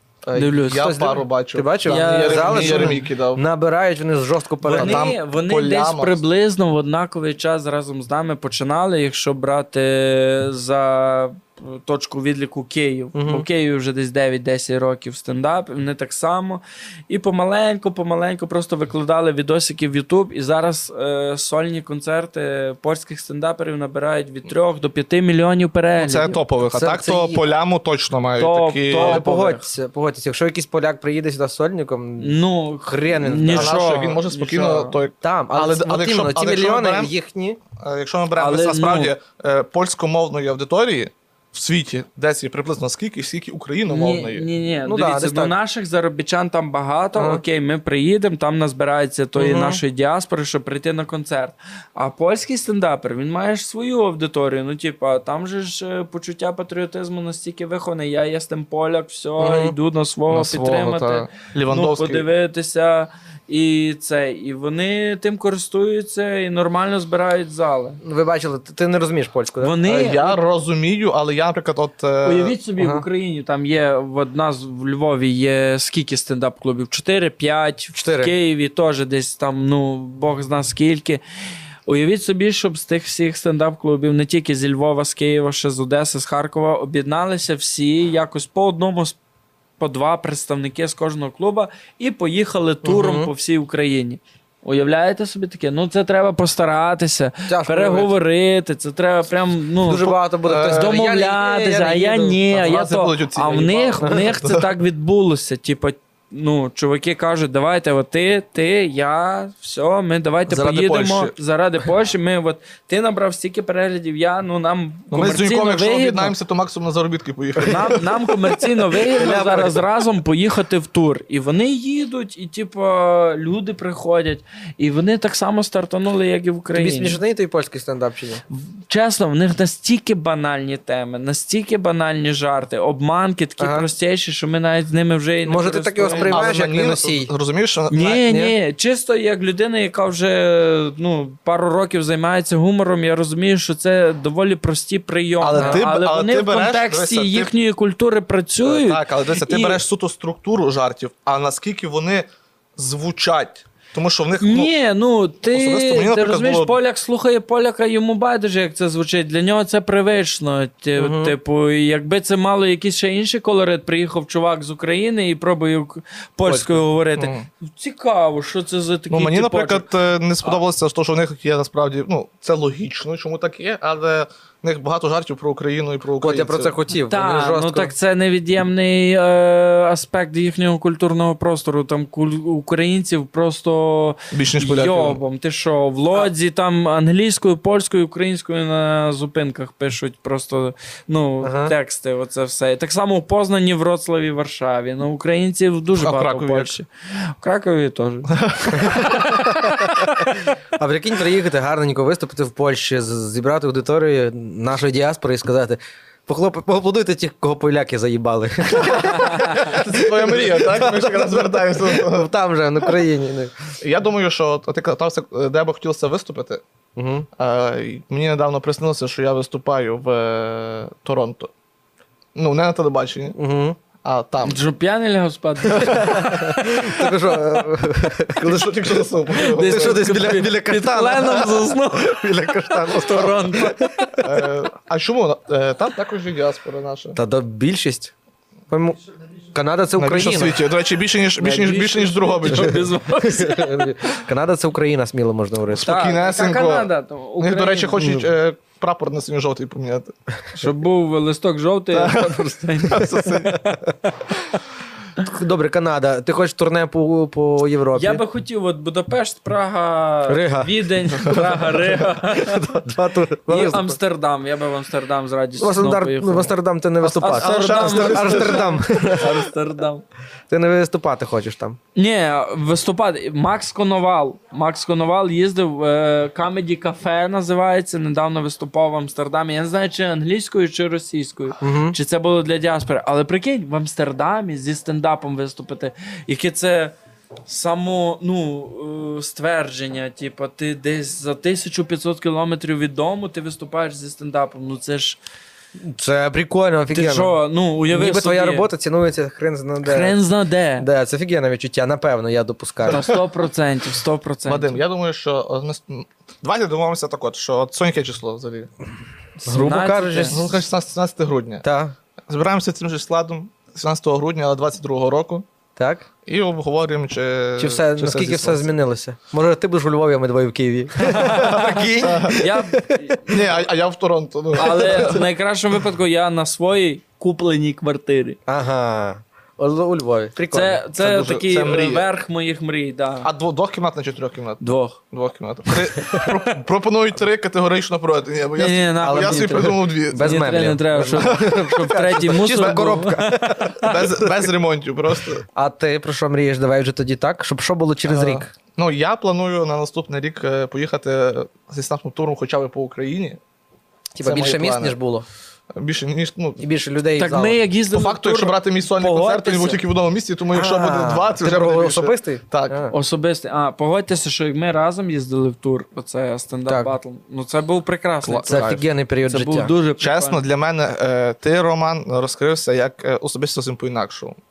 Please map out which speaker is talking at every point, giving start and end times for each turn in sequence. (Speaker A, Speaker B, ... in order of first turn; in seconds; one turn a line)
Speaker A: 0.2-3.4
Speaker B: 0.3-1.0
Speaker C: 0.7-5.0
Speaker B: 1.9-3.0
Speaker B: 4.6-26.4
Speaker A: 4.7-6.2
Speaker C: 13.1-13.4
Speaker A: 26.0-29.2
Speaker C: 26.6-27.4
Speaker B: 28.4-29.6
Speaker C: 28.9-33.7
Speaker B: 32.2-35.0
Speaker A: 33.5-37.1
Speaker C: 35.2-37.6
Speaker A: 37.8-44.5
Speaker B: 38.4-39.1
Speaker B: 43.9-68.0
Speaker C: 44.9-45.5
Speaker C: 47.1-47.4
Speaker C: 49.4-49.8
Speaker C: 59.4-59.7
Speaker A: 60.3-62.3
Speaker C: 68.0-69.8
Speaker B: 69.6-70.4
Speaker A: 69.8-72.5
Speaker B: 72.2-81.2
Speaker C: 72.8-73.0
Speaker C: 78.0-78.3
Speaker B: 81.9-89.2
Speaker B: 89.8-116.3
Speaker C: 92.8-93.3
Speaker C: 97.5-98.1
Speaker C: 99.8-102.4
Speaker A: 100.4-101.0
Speaker A: 102.5-104.7
Speaker C: 104.0-104.3
Speaker A: 110.5-111.3
Speaker A: 115.1-118.3
Speaker B: 117.6-127.2
Speaker C: 119.1-119.8
Speaker C: 126.7-128.4
Speaker B: 128.5-136.4
Speaker C: 133.6-133.9
Speaker C: 135.4-137.3
Speaker A: 136.2-138.2
Speaker B: 137.9-149.8
Speaker C: 138.2-138.5
Speaker A: 145.4-147.5
Speaker C: 145.5-145.8
Speaker A: 148.6-154.7
Speaker B: 154.4-169.8
Speaker A: 155.5-156.7
Speaker C: 161.0-161.3
Speaker C: 166.4-166.8
Speaker A: 167.2-167.4
Speaker A: 169.1-176.8
Speaker C: 176.2-177.9
Speaker B: 176.9-200.3
Speaker A: 184.3-185.2
Speaker C: 191.4-191.7
Speaker A: 196.0-196.7
Speaker A: 198.3-199.4
Speaker C: 198.8-199.6
Speaker C: 200.8-213.7
Speaker B: 209.0-209.6
Speaker A: 209.4-212.3
Speaker A: 213.8-216.6
Speaker C: 216.9-217.3
Speaker A: 217.4-221.5
Speaker A: 222.3-223.3
Speaker C: 223.3-223.8
Speaker A: 224.0-224.6
Speaker B: 224.4-226.7
Speaker A: 225.7-226.6
Speaker C: 225.8-229.0
Speaker A: 228.3-230.3
Speaker B: 229.3-233.9
Speaker C: 229.6-234.4
Speaker A: 234.2-237.2
Speaker C: 237.2-238.1
Speaker C: 238.7-239.0
Speaker C: 239.5-240.6
Speaker A: 240.0-242.9
Speaker B: 241.4-243.8
Speaker C: 242.5-245.9
Speaker A: 245.7-246.9
Speaker B: 245.7-248.3
Speaker A: 247.4-250.1
Speaker B: 250.5-254.1
Speaker A: 251.9-253.6
Speaker C: 255.2-258.2
Speaker B: 257.9-262.9
Speaker C: 260.3-264.0
Speaker B: 263.5-266.5
Speaker C: 265.6-269.4
Speaker A: 267.0-268.8
Speaker B: 267.2-270.0
Speaker C: 270.5-271.8
Speaker B: 271.9-286.9
Speaker C: 281.6-282.0
Speaker B: 287.4-295.2
Speaker C: 295.8-297.3
Speaker B: 296.9-298.7
Speaker C: 297.9-300.1
Speaker B: 299.8-300.9
Speaker C: 300.8-303.2
Speaker B: 302.9-304.8
Speaker A: 304.5-308.7
Speaker B: 309.4-310.4
Speaker C: 309.4-310.6
Speaker A: 310.3-311.6
Speaker C: 311.6-311.9
Speaker A: 312.3-315.4
Speaker C: 315.8-316.1
Speaker A: 316.2-318.6
Speaker C: 317.6-323.0
Speaker B: 321.0-323.5
Speaker A: 321.3-322.4
Speaker A: 323.3-325.2
Speaker B: 324.6-328.4
Speaker C: 328.5-330.8
Speaker B: 330.4-333.3
Speaker A: 331.0-332.1
Speaker A: 333.2-340.5
Speaker B: 334.6-335.0
Speaker B: 338.6-344.0
Speaker C: 339.0-344.5
Speaker A: 341.2-341.5
Speaker A: 342.4-343.0
Speaker A: 343.8-345.4
Speaker C: 345.5-348.5
Speaker A: 348.1-353.4
Speaker C: 354.1-355.2
Speaker A: 354.2-354.9
Speaker A: 355.7-356.6
Speaker C: 356.6-357.6
Speaker B: 357.2-359.8
Speaker A: 357.9-362.8
Speaker C: 360.5-362.9
Speaker B: 362.9-370.4
Speaker C: 366.7-366.9
Speaker A: 368.2-368.8
Speaker C: 368.4-369.7
Speaker A: 370.0-374.4